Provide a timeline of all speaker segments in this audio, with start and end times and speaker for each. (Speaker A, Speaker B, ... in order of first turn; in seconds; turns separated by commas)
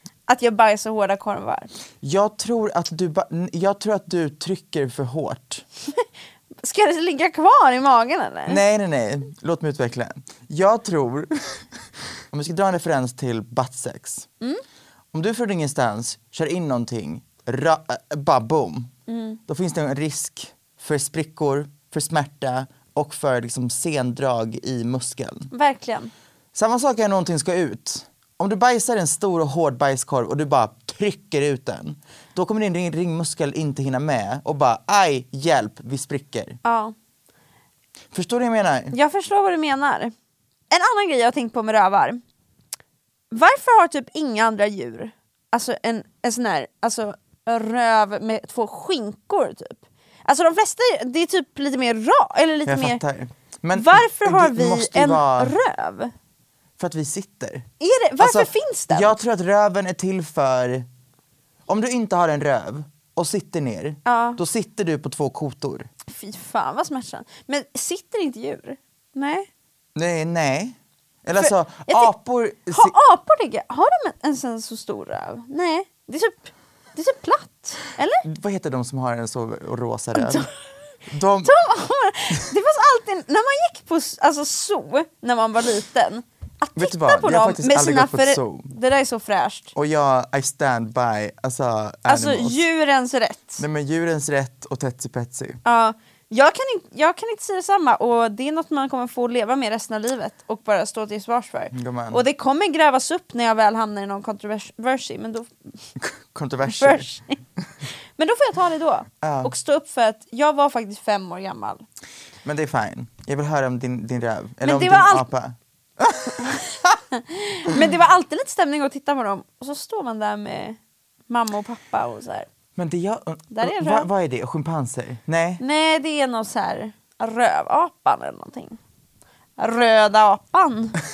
Speaker A: 0.3-1.7, Speaker B: 2.0-5.6, Speaker A: 6.6-8.6, Speaker B: 8.5-11.7, Speaker B: 12.3-14.3, Speaker B: 15.1-18.9, Speaker A: 19.1-19.4, Speaker B: 19.5-25.5, Speaker A: 25.5-26.1, Speaker B: 26.5-36.6, Speaker A: 36.6-36.9, Speaker B: 38.1-39.0, Speaker A: 38.9-40.1, Speaker A: 40.7-42.2, Speaker A: 43.3-53.0, Speaker B: 52.6-55.5, Speaker A: 53.7-56.1, Speaker B: 56.8-57.7, Speaker A: 57.8-59.1, Speaker B: 58.2-60.9, Speaker B: 61.7-65.9, Speaker A: 64.0-64.4, Speaker A: 66.1-69.5, Speaker B: 70.0-72.9, Speaker A: 71.4-72.1, Speaker A: 72.7-78.2, Speaker B: 78.2-80.5, Speaker A: 80.1-80.5, Speaker B: 81.1-81.5, Speaker A: 81.4-89.7, Speaker B: 86.8-88.7, Speaker B: 89.7-92.7, Speaker A: 92.1-93.6, Speaker B: 93.6-95.6, Speaker A: 95.6-105.5, Speaker B: 101.7-102.2, Speaker B: 106.0-107.1, Speaker A: 106.7-107.4, Speaker A: 108.2-111.8, Speaker B: 109.2-109.5, Speaker B: 112.4-117.0, Speaker A: 114.6-115.2, Speaker A: 117.1-120.8, Speaker A: 121.3-122.5, Speaker B: 122.8-125.6, Speaker A: 123.5-124.1, Speaker A: 125.6-128.8, Speaker A: 129.6-131.0